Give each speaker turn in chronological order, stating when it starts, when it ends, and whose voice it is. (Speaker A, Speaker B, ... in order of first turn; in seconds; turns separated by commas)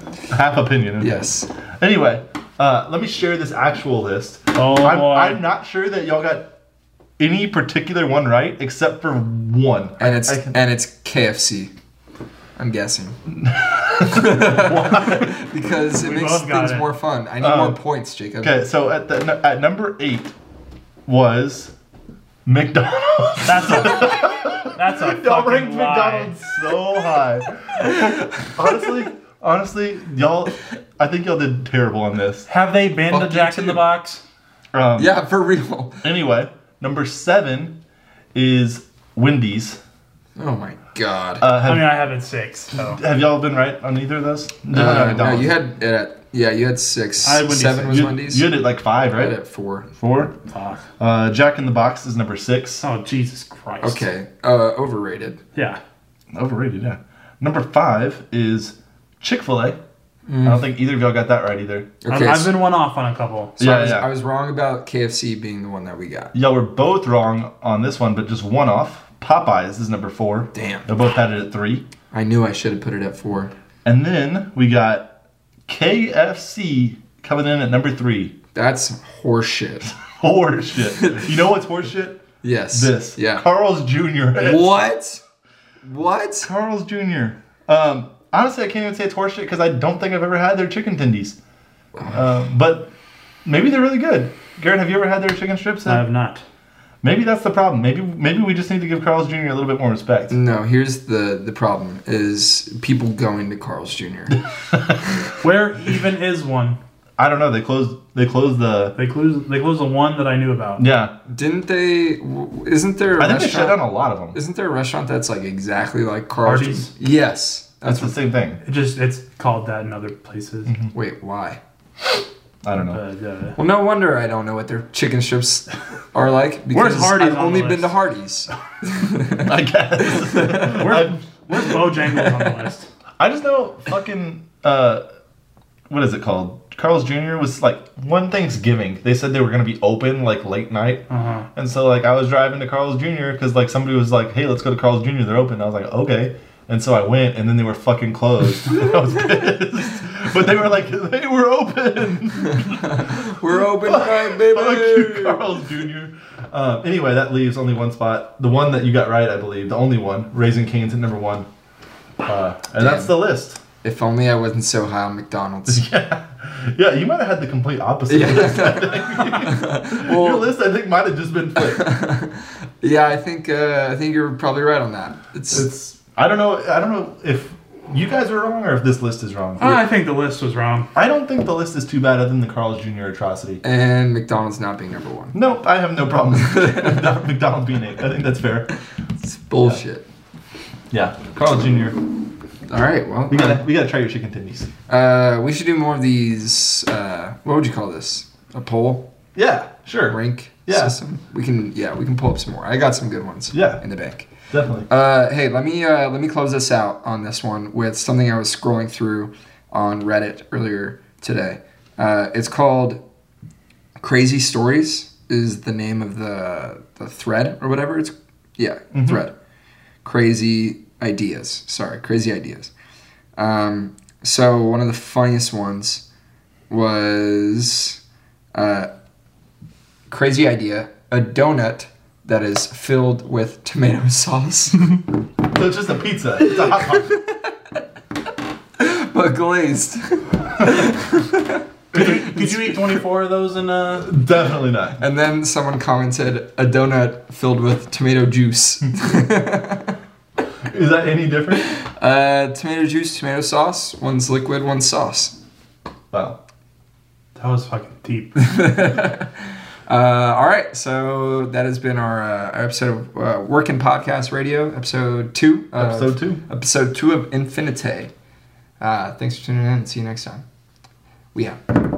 Speaker A: 0.3-1.2, Speaker B: 1.0-1.5, Speaker A: 1.8-6.5, Speaker C: 4.5-5.4, Speaker A: 7.2-10.6, Speaker B: 10.0-11.7, Speaker B: 12.6-13.2, Speaker A: 13.3-15.3, Speaker B: 14.0-18.6, Speaker C: 15.9-16.9, Speaker A: 17.4-17.8, Speaker A: 18.4-20.3, Speaker A: 21.1-21.7, Speaker A: 22.4-32.5, Speaker C: 23.4-26.4, Speaker C: 32.5-34.2, Speaker B: 33.1-33.8, Speaker A: 34.7-35.1, Speaker B: 35.0-36.0, Speaker A: 36.0-37.8, Speaker A: 38.3-39.8, Speaker B: 40.4-41.5, Speaker A: 41.4-41.9, Speaker C: 41.6-43.0, Speaker A: 42.9-45.5, Speaker B: 44.7-48.5, Speaker C: 47.2-48.0, Speaker A: 47.9-49.4, Speaker B: 49.1-49.9, Speaker A: 50.0-50.3, Speaker C: 50.5-50.8, Speaker A: 51.0-52.8, Speaker C: 52.8-54.0, Speaker B: 53.8-55.4, Speaker C: 55.5-55.8, Speaker A: 56.3-59.8, Speaker B: 60.3-60.6, Speaker A: 60.4-61.9, Speaker B: 62.0-62.5, Speaker C: 62.1-63.5, Speaker A: 63.6-64.1, Speaker B: 63.6-66.3, Speaker A: 66.3-71.8, Speaker B: 70.5-70.9, Speaker B: 72.1-73.5, Speaker A: 73.8-75.1, Speaker A: 75.7-78.3, Speaker B: 78.5-79.9, Speaker A: 79.9-84.8, Speaker B: 82.4-83.4, Speaker B: 84.3-85.2, Speaker B: 85.8-86.5, Speaker A: 86.4-91.4, Speaker A: 92.0-92.9, Speaker A: 93.4-96.0, Speaker C: 95.8-96.4, Speaker A: 97.0-100.3, Speaker B: 100.3-104.4, Speaker C: 105.4-106.8, Speaker A: 107.2-109.0, Speaker C: 109.0-110.8, Speaker A: 110.8-111.1, Speaker B: 111.3-118.1, Speaker A: 113.2-114.4, Speaker C: 116.4-116.9, Speaker A: 117.8-118.6, Speaker C: 118.6-120.7, Speaker A: 120.7-120.9, Speaker B: 120.9-121.6, Speaker A: 122.6-123.0, Speaker C: 122.8-123.6, Speaker B: 123.6-129.5, Speaker C: 126.7-128.0, Speaker A: 129.4-131.2, Speaker B: 130.0-130.8, Speaker C: 130.6-132.9, Speaker A: 133.2-135.0, Speaker A: 135.9-161.5, Speaker C: 141.1-141.5, Speaker B: 152.5-155.4, Speaker A: 162.2-163.6, Speaker B: 162.8-163.2, Speaker B: 163.8-165.8, Speaker A: 165.7-171.8, Speaker B: 168.1-170.5, Speaker B: 171.7-175.7, Speaker A: 175.5-179.8, Speaker C: 179.6-180.9, Speaker A: 180.9-183.6, Speaker B: 183.6-185.3, Speaker A: 185.3-188.7, Speaker B: 189.2-190.0, Speaker A: 190.9-192.0, Speaker B: 192.7-193.6, Speaker A: 193.3-194.7, Speaker B: 194.9-199.1, Speaker A: 199.3-200.9, Speaker B: 200.1-204.3, Speaker A: 203.5-203.8, Speaker A: 204.5-204.9, Speaker B: 204.9-213.0, Speaker B: 214.0-219.3, Speaker A: 218.9-219.2, Speaker B: 220.0-222.7, Speaker B: 223.4-226.0, Speaker B: 226.7-228.0, Speaker B: 228.5-228.9, Speaker B: 230.1-234.9, Speaker A: 235.5-237.1, Speaker B: 236.4-237.5, Speaker B: 238.8-241.6, Speaker C: 241.9-244.1, Speaker A: 241.9-242.4, Speaker A: 243.9-245.0, Speaker B: 245.0-249.9, Speaker A: 250.7-251.7, Speaker B: 251.7-255.3, Speaker A: 256.1-256.4, Speaker C: 257.3-258.3, Speaker B: 258.4-268.1, Speaker A: 265.8-266.4, Speaker B: 268.8-270.4